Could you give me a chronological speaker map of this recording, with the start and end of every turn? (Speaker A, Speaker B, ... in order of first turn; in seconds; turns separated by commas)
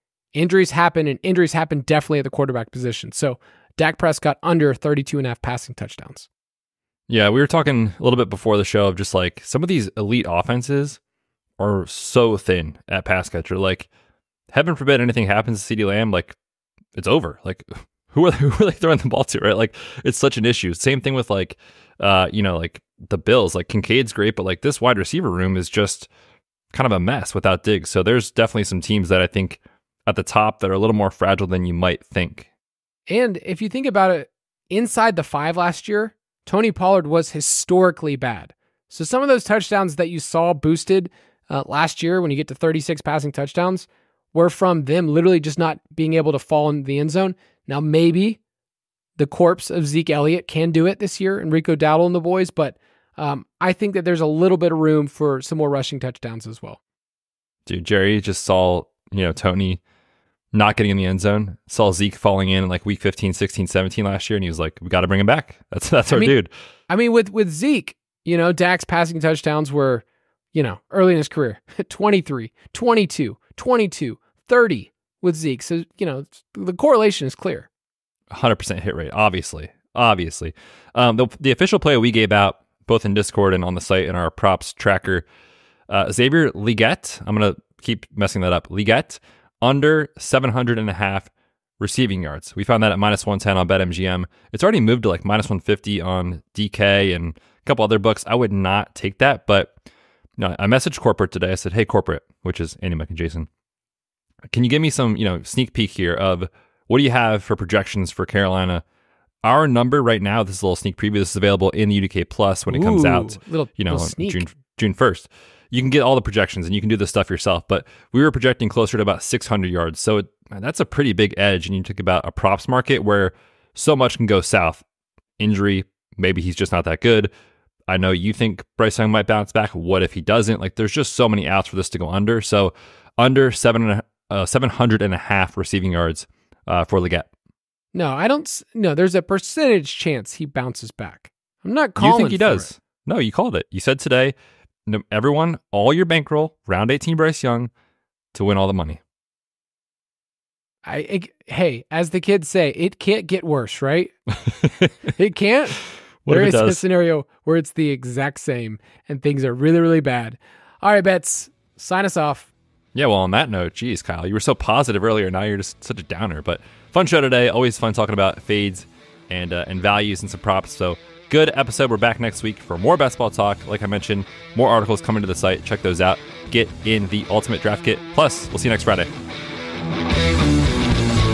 Speaker A: 0.3-6.3, Speaker B: 7.1-11.0, Speaker B: 11.6-13.9, Speaker B: 14.5-16.4, Speaker B: 16.9-26.1, Speaker B: 26.7-32.5, Speaker A: 33.1-48.4, Speaker A: 49.2-56.8, Speaker B: 57.6-59.8, Speaker B: 60.5-66.5, Speaker A: 66.9-77.7, Speaker B: 78.3-85.2, Speaker B: 85.9-99.7, Speaker B: 100.4-103.5, Speaker B: 104.5-108.8, Speaker B: 109.4-124.8, Speaker A: 112.7-114.5, Speaker B: 125.4-127.3, Speaker B: 127.9-137.3, Speaker A: 137.9-142.7, Speaker B: 142.0-147.7, Speaker B: 148.3-149.0, Speaker A: 150.8-154.1, Speaker B: 154.4-155.1, Speaker A: 155.1-162.5, Speaker B: 156.2-156.8, Speaker B: 162.9-179.1